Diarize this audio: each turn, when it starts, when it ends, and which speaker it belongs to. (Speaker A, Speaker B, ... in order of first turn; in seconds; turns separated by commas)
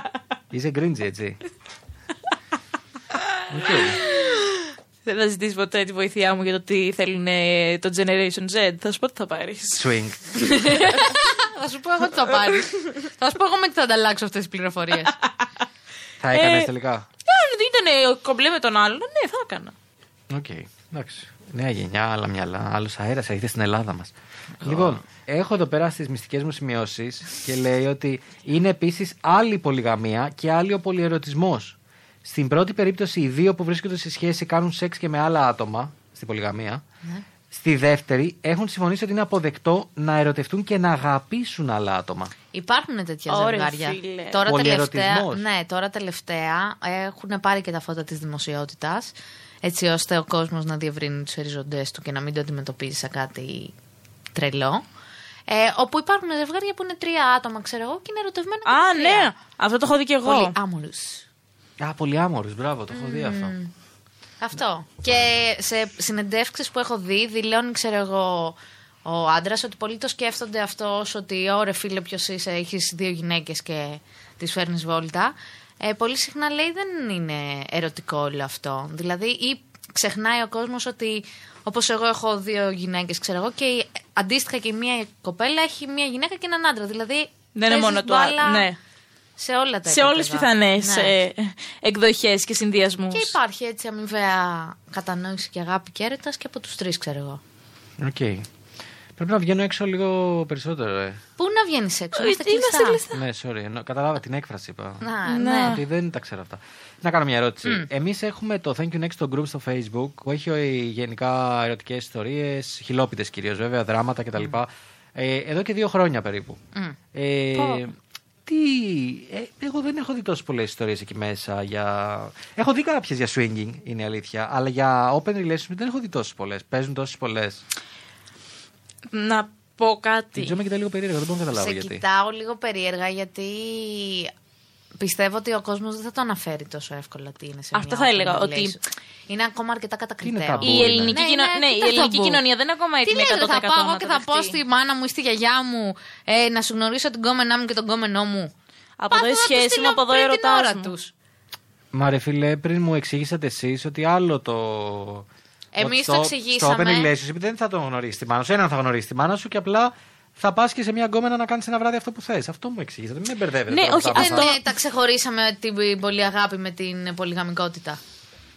Speaker A: 0.5-1.4, Speaker A: 3.5-4.0, Speaker B: 4.0-9.8, Speaker A: 9.7-10.3, Speaker C: 10.3-15.2, Speaker A: 16.2-17.1, Speaker B: 16.3-16.7, Speaker B: 17.2-19.7, Speaker A: 20.3-36.8, Speaker A: 37.5-42.3, Speaker C: 42.5-53.7, Speaker B: 43.3-44.4, Speaker A: 44.5-45.4, Speaker C: 54.3-54.8, Speaker C: 55.5-59.3, Speaker B: 58.6-60.5, Speaker C: 60.2-61.2, Speaker A: 61.8-63.5, Speaker C: 62.9-63.7, Speaker C: 64.4-88.7, Speaker B: 87.5-88.8, Speaker C: 89.4-91.2, Speaker B: 89.9-93.3, Speaker C: 93.1-97.4, Speaker A: 98.0-98.5, Speaker A: 99.2-101.2, Speaker C: 101.4-103.0, Speaker B: 102.1-103.2, Speaker A: 103.1-105.1, Speaker C: 105.0-105.8, Speaker B: 105.2-105.8, Speaker A: 105.6-116.6, Speaker A: 117.1-117.9, Speaker A: 118.5-127.6, Speaker B: 129.1-130.6, Speaker A: 130.3-132.0, Speaker C: 131.5-134.3, Speaker C: 135.0-142.4, Speaker B: 137.7-138.8, Speaker A: 140.2-141.2, Speaker B: 140.6-144.6, Speaker C: 143.0-148.5, Speaker B: 149.0-150.9, Speaker C: 149.1-151.1, Speaker A: 151.9-155.3, Speaker C: 155.7-157.1, Speaker A: 155.8-164.5, Speaker B: 163.7-164.6, Speaker C: 164.1-168.0